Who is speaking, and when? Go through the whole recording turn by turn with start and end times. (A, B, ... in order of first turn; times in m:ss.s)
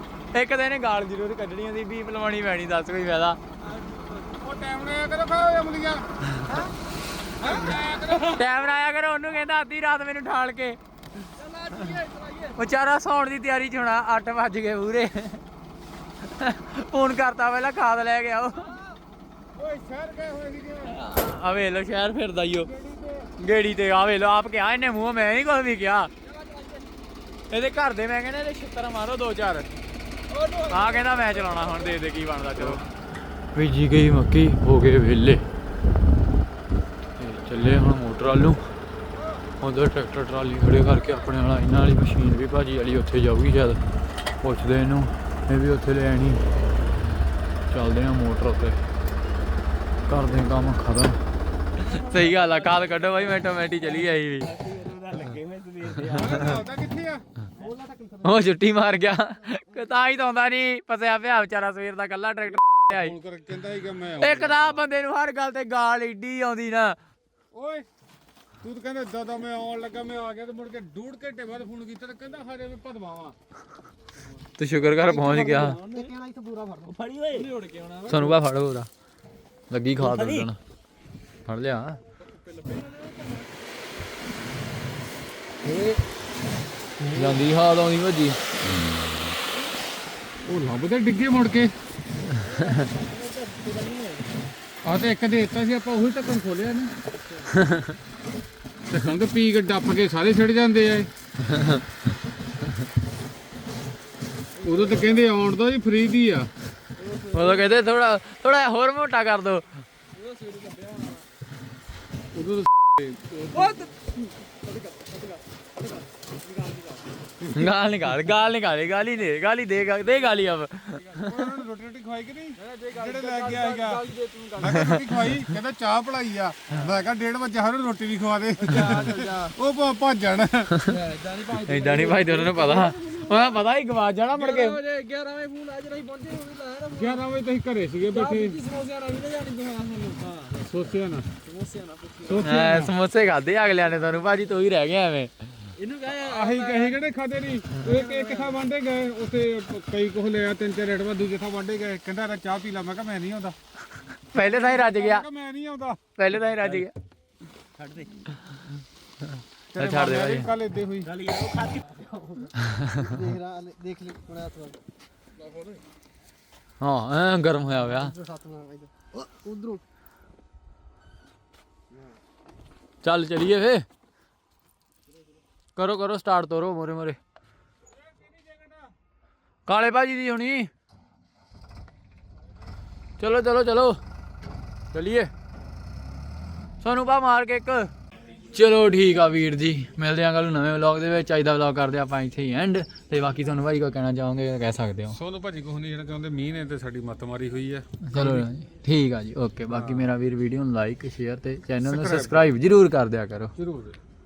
0:00.3-0:03.4 A
0:04.4-0:06.0 B
0:07.4-0:08.5 B
0:08.2-0:10.8 A
0:11.4-0:12.5 C
0:12.5-0:15.4 A
0:16.2-0:18.8 A
0:19.5-0:21.0 B
0:20.9-0:22.7 A
0:22.7-0:23.3 B
0:23.4-0:26.1 A
0:26.4-0:26.8 C
0:27.5-0:29.7 A
0:30.4-0:30.7 C
0:30.6-0:32.9 A
0:33.5-0:35.4 A
0:37.2-0:38.6 A
0:39.6-0:43.8 A
0:44.4-0:46.4 A
0:47.7-0:48.8 A
0:50.1-0:51.2 A
0:51.8-0:54.6 A
0:54.5-0:56.4 C
0:56.1-0:57.2 B
0:57.6-0:58.1 C
0:58.2-1:03.1 A
1:02.9-1:04.8 B
1:04.2-1:07.0 A
1:07.5-1:07.9 B
1:08.6-1:13.4 B
1:14.6-1:15.8 A
1:15.5-1:16.2 C
1:15.9-1:16.9 D
1:16.8-1:18.2 C
1:18.0-1:18.9 A
1:19.7-1:20.6 A
1:20.1-1:20.4 C
1:21.5-1:22.0 A
1:22.5-1:23.3 C
1:25.7-1:25.9 A
1:27.0-1:28.4 A
1:30.4-1:31.7 B
1:32.4-1:34.3 C
1:32.5-1:32.8 A
1:34.8-1:37.0 B
1:37.5-1:38.0 A
1:38.9-1:41.1 B
1:41.4-1:41.9 A
1:44.6-1:46.5 B
1:47.2-1:49.8 A
1:50.4-1:51.1 C
1:52.3-1:53.9 B
1:53.5-1:55.4 C
1:56.6-1:57.0 C
1:57.4-2:01.5 A
2:01.1-2:10.8 B
2:02.6-2:04.8 C
2:04.6-2:05.4 A
2:08.7-2:09.5 C
2:10.8-2:14.8 A
2:10.9-2:13.4 C
2:14.5-2:17.1 C
2:16.9-2:18.6 B
2:18.2-2:20.6 C
2:20.5-2:21.3 B
2:21.4-2:22.4 C
2:22.2-2:22.9 B
2:22.4-2:25.3 A
2:25.8-2:26.9 C
2:26.2-2:33.6 B
2:27.8-2:28.6 C
2:34.3-2:35.2 A
2:34.4-2:36.1 B
2:36.2-2:36.9 A
2:37.8-2:38.3 C
2:39.7-2:41.1 B
2:39.8-2:40.5 A
2:41.1-2:42.0 C
2:42.1-2:44.8 D
2:42.6-2:43.2 A
2:46.8-2:48.2 A
2:48.2-2:49.8 D
2:53.0-2:53.8 A
2:55.8-2:57.2 A
2:59.6-3:00.7 A
3:03.2-3:04.0 A
3:04.9-3:05.3 A
3:06.8-3:07.9 A
3:08.5-3:15.2 A
3:15.2-3:18.5 B
3:18.0-3:23.5 A
3:19.7-3:20.1 B
3:21.8-3:22.6 B
3:23.6-3:24.0 B